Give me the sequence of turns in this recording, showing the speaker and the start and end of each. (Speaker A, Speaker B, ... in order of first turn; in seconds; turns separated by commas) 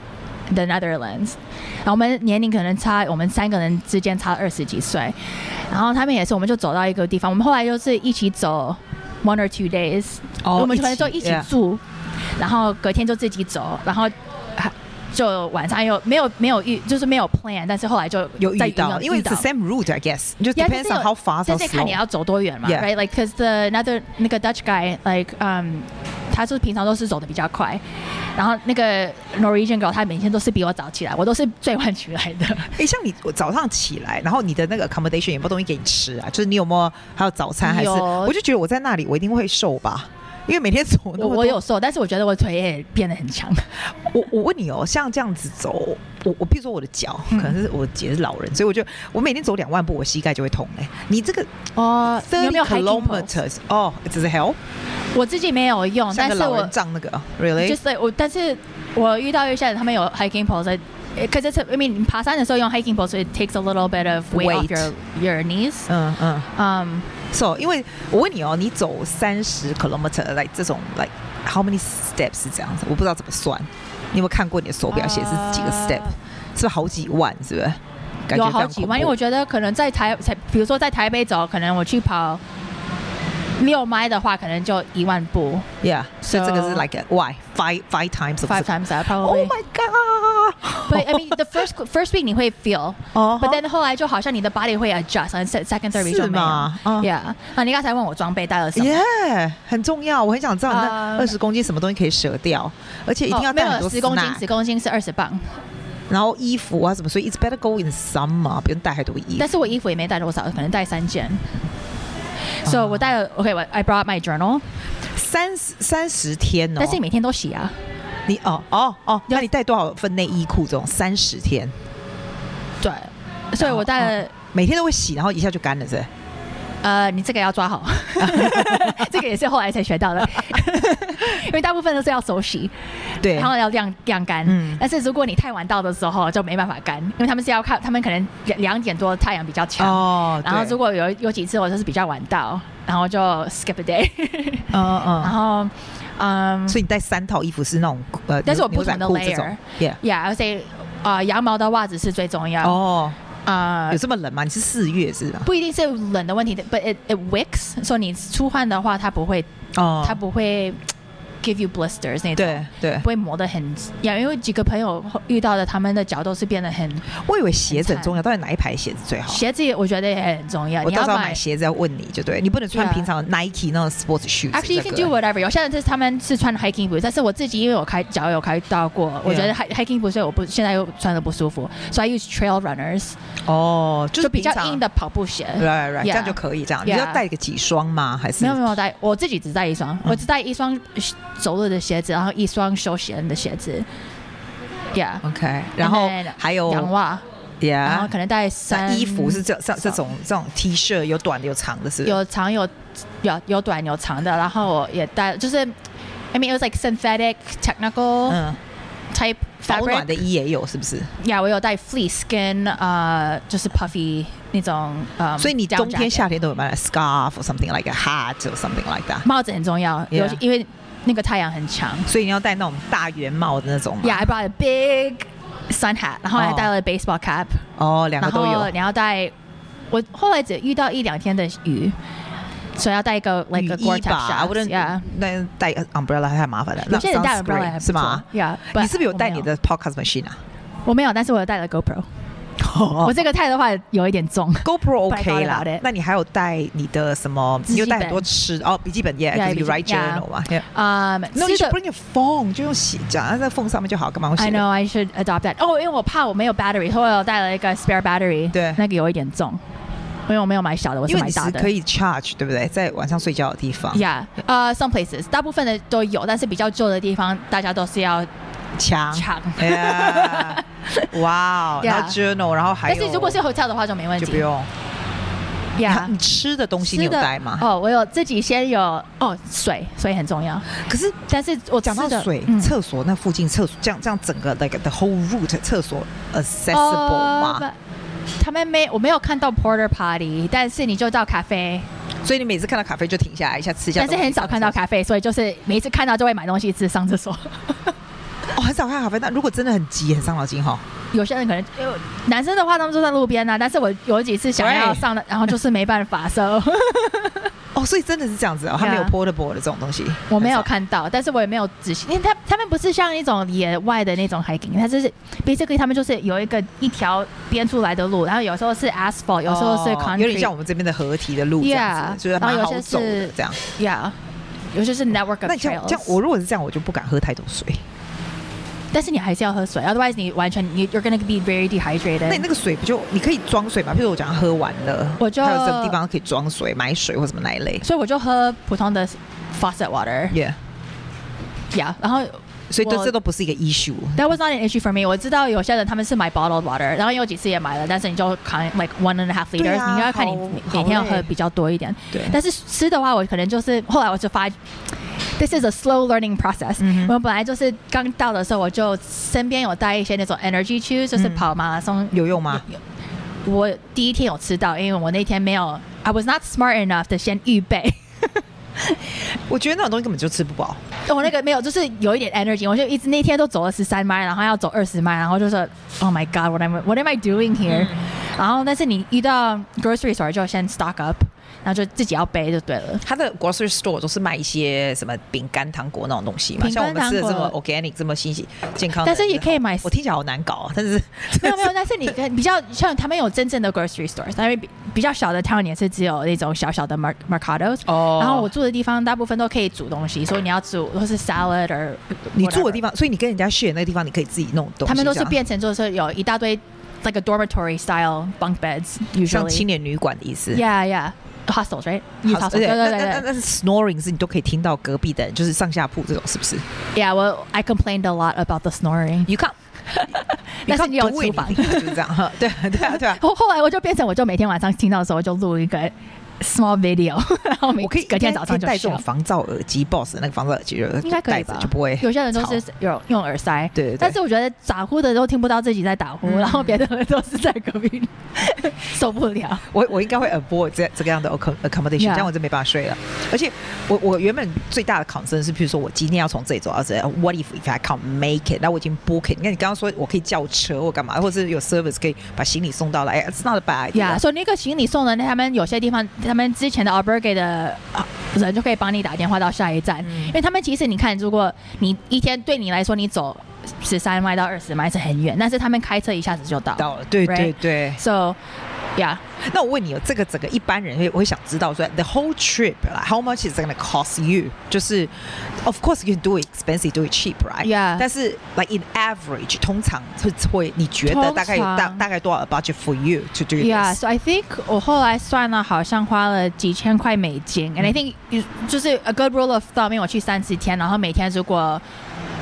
Speaker A: 0.5-11.8, Speaker B: 10.4-11.5, Speaker A: 12.4-19.5, Speaker B: 18.4-22.0, Speaker A: 20.5-27.8, Speaker A: 28.4-32.7, Speaker B: 32.7-41.6, Speaker A: 37.6-38.3, Speaker A: 41.2-43.7, Speaker B: 44.0-54.6, Speaker A: 47.3-47.6, Speaker A: 51.8-53.4, Speaker A: 55.1-56.7, Speaker B: 56.1-57.8, Speaker A: 57.6-65.9, Speaker B: 64.3-64.9, Speaker B: 65.9-66.5, Speaker A: 66.5-67.1, Speaker B: 67.3-79.1, Speaker A: 74.9-76.1, Speaker A: 78.3-82.4, Speaker A: 83.6-85.7, Speaker B: 85.8-91.4, Speaker A: 86.2-86.9, Speaker A: 88.4-89.6, Speaker A: 90.8-99.0, Speaker B: 93.1-93.6, Speaker B: 95.9-97.1, Speaker B: 98.8-104.4, Speaker A: 100.7-101.3, Speaker A: 103.3-105.6, Speaker B: 106.1-109.5, Speaker A: 109.4-111.5, Speaker A: 112.6-114.6, Speaker B: 112.6-113.0, Speaker B: 115.1-117.0, Speaker A: 116.8-117.7, Speaker B: 118.3-121.7, Speaker A: 122.8-124.3, Speaker B: 123.6-126.1, Speaker A: 126.8-146.8, Speaker B: 128.2-129.1, Speaker B: 133.2-133.5, Speaker B: 134.4-134.8, Speaker B: 139.8-140.8, Speaker B: 144.7-145.3, Speaker B: 146.7-150.0, Speaker A: 148.4-152.8, Speaker B: 152.6-153.2, Speaker A: 153.4-154.0, Speaker B: 153.9-155.5, Speaker A: 155.4-159.5, Speaker B: 159.7-160.2, Speaker A: 160.0-160.8, Speaker A: 161.4-167.1, Speaker B: 162.3-163.1, Speaker B: 167.1-169.4, Speaker A: 167.7-168.1, Speaker A: 169.3-171.4, Speaker B: 170.8-175.1, Speaker A: 172.7-173.1, Speaker A: 174.5-183.2, Speaker B: 179.2-179.5, Speaker B: 183.4-184.8, Speaker A: 184.2-187.2, Speaker B: 185.6-188.7, Speaker A: 188.4-193.9, Speaker A: 194.9-195.2, Speaker B: 195.2-196.9, Speaker A: 195.8-197.2, Speaker B: 197.6-198.1, Speaker A: 197.8-200.0, Speaker B: 198.7-202.2, Speaker A: 202.0-205.8, Speaker A: 206.3-208.4, Speaker B: 208.3-208.6, Speaker A: 209.1-210.2, Speaker B: 209.7-211.1, Speaker A: 211.2-216.3, Speaker B: 215.4-219.3, Speaker A: 219.2-222.1, Speaker B: 220.1-220.4, Speaker B: 222.1-224.3, Speaker A: 224.0-227.6, Speaker B: 226.3-226.7, Speaker B: 227.8-228.7, Speaker A: 228.2-229.3, Speaker A: 229.9-232.0, Speaker A: 232.8-235.1, Speaker B: 233.5-240.4, Speaker A: 236.8-239.5, Speaker A: 240.8-242.1, Speaker B: 242.6-243.2, Speaker A: 243.0-245.8, Speaker B: 244.6-250.7, Speaker A: 247.7-248.3, Speaker A: 249.3-251.8, Speaker B: 251.3-254.6, Speaker A: 254.3-259.6, Speaker B: 258.5-258.8, Speaker A: 260.3-261.7, Speaker B: 261.1-264.0, Speaker A: 263.9-268.3, Speaker B: 268.8-273.4, Speaker A: 269.1-271.1, Speaker A: 271.8-272.2, Speaker A: 272.9-274.5, Speaker B: 274.2-274.7, Speaker A: 275.8-276.1, Speaker B: 275.8-277.7, Speaker A: 276.8-280.7, Speaker B: 280.7-281.2, Speaker A: 281.3-282.7, Speaker B: 281.8-287.6, Speaker A: 286.7-287.8, Speaker A: 288.4-291.9, Speaker B: 292.2-294.8, Speaker A: 293.9-297.9, Speaker B: 298.5-300.8, Speaker A: 301.1-307.5, Speaker B: 304.6-305.1, Speaker B: 307.7-310.7, Speaker A: 308.8-309.1, Speaker A: 310.3-320.5, Speaker B: 319.4-323.6, Speaker A: 321.6-324.2, Speaker A: 324.7-326.1, Speaker B: 325.4-327.8, Speaker A: 328.9-332.4, Speaker B: 332.3-337.8, Speaker A: 335.2-336.0, Speaker A: 337.8-340.4, Speaker B: 340.3-340.6, Speaker A: 341.7-343.1, Speaker B: 342.7-344.2, Speaker A: 344.1-354.6, Speaker B: 349.6-351.3, Speaker B: 352.1-352.4, Speaker A: 355.4-362.8, Speaker B: 356.8-357.1, Speaker B: 361.1-361.5, Speaker B: 362.1-362.6, Speaker A: 363.4-369.1, Speaker B: 369.4-370.8, Speaker A: 371.1-383.0, Speaker B: 377.7-378.1, Speaker B: 383.0-391.7, Speaker A: 386.6-387.5, Speaker A: 389.0-389.9, Speaker A: 391.3-402.8, Speaker B: 397.9-398.5, Speaker B: 402.3-405.4, Speaker A: 404.8-409.6, Speaker B: 409.2-410.6, Speaker A: 410.5-413.3, Speaker B: 412.2-416.6, Speaker A: 416.9-419.3, Speaker B: 419.3-423.2, Speaker A: 419.9-422.0, Speaker A: 422.7-429.0, Speaker B: 427.8-432.6, Speaker A: 431.0-439.6, Speaker B: 433.7-434.1, Speaker B: 436.2-436.8, Speaker B: 439.7-454.2, Speaker A: 442.0-442.3, Speaker A: 453.9-468.4, Speaker B: 460.0-460.3, Speaker B: 466.8-468.0, Speaker A: 468.9-469.2, Speaker B: 469.4-484.0, Speaker A: 477.6-478.1, Speaker A: 481.0-482.1, Speaker A: 483.6-491.8